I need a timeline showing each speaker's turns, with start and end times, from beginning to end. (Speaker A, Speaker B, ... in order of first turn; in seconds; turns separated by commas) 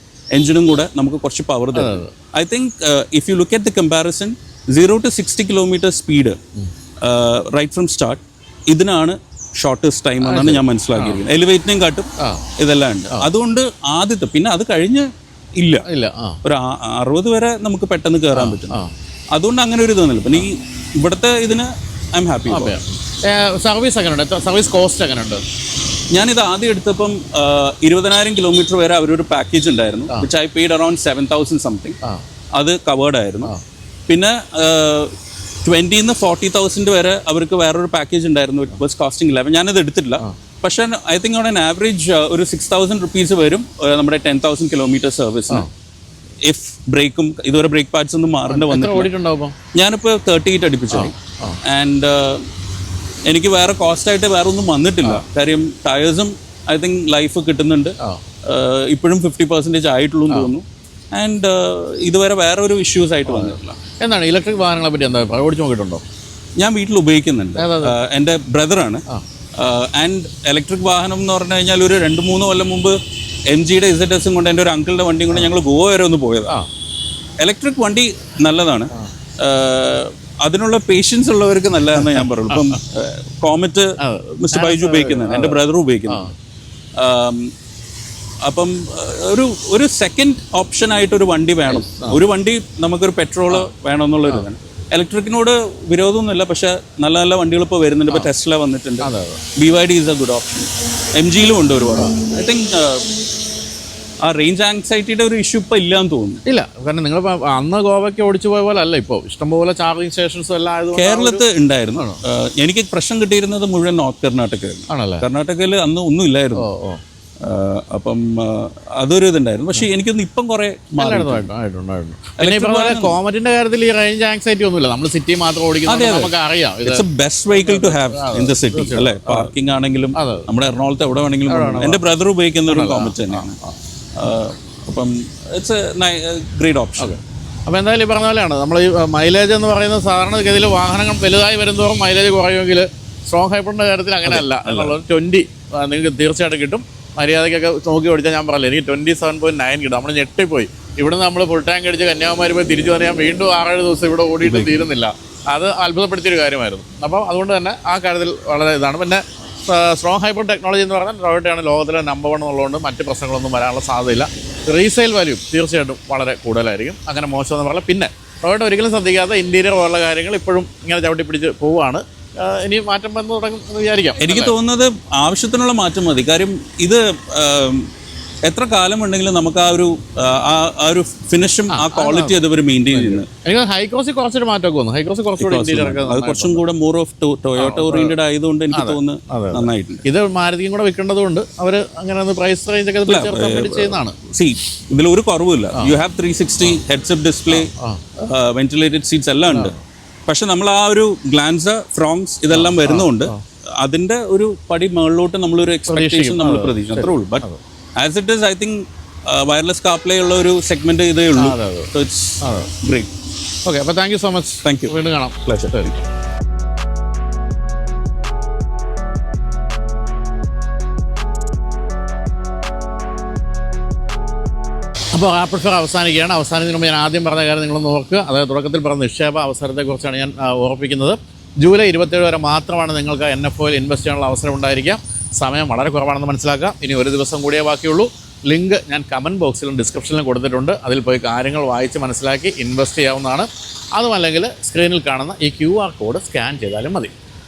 Speaker A: 0.3-6.4, Speaker B: 1.7-2.1, Speaker A: 7.0-12.1, Speaker B: 10.2-11.2, Speaker A: 12.6-15.1, Speaker A: 15.6-15.9, Speaker B: 15.9-16.4, Speaker A: 16.4-18.8, Speaker B: 18.3-18.9, Speaker A: 19.3-22.8, Speaker B: 22.5-25.4, Speaker A: 26.1-32.0, Speaker A: 32.5-33.5, Speaker A: 34.1-45.7, Speaker A: 46.4-49.1, Speaker B: 48.5-49.5, Speaker A: 49.7-52.4, Speaker B: 50.9-51.6, Speaker A: 53.3-63.8, Speaker B: 63.3-66.0, Speaker A: 66.6-69.0, Speaker B: 67.6-68.0, Speaker A: 69.6-73.0, Speaker A: 73.5-76.6, Speaker A: 77.4-86.3, Speaker B: 82.0-82.8, Speaker B: 84.0-86.3, Speaker A: 87.0-87.5, Speaker A: 88.4-103.1, Speaker B: 91.7-92.2, Speaker B: 99.0-99.4, Speaker A: 104.2-106.4, Speaker B: 106.5-112.2, Speaker A: 110.9-116.7, Speaker B: 114.9-115.2, Speaker B: 116.6-117.0, Speaker A: 117.4-121.5, Speaker B: 121.0-129.5, Speaker A: 122.4-123.2, Speaker A: 125.9-126.3, Speaker A: 126.8-133.6, Speaker B: 130.1-130.5, Speaker B: 131.5-132.0, Speaker B: 132.7-133.8, Speaker A: 134.2-137.2, Speaker B: 137.0-174.6, Speaker A: 144.2-145.0, Speaker A: 154.4-154.8, Speaker A: 174.2-177.9, Speaker A: 178.4-183.3, Speaker B: 181.7-186.6, Speaker A: 185.4-190.0, Speaker B: 187.6-188.2, Speaker B: 188.7-194.2, Speaker A: 193.1-199.7, Speaker B: 197.5-198.2, Speaker B: 199.5-199.8, Speaker A: 200.3-207.5, Speaker B: 202.5-203.4, Speaker B: 205.9-207.6, Speaker A: 208.0-213.1, Speaker B: 211.3-211.9, Speaker B: 212.4-212.7, Speaker B: 213.6-216.0, Speaker A: 214.6-214.9, Speaker A: 215.5-216.0, Speaker B: 225.1-247.1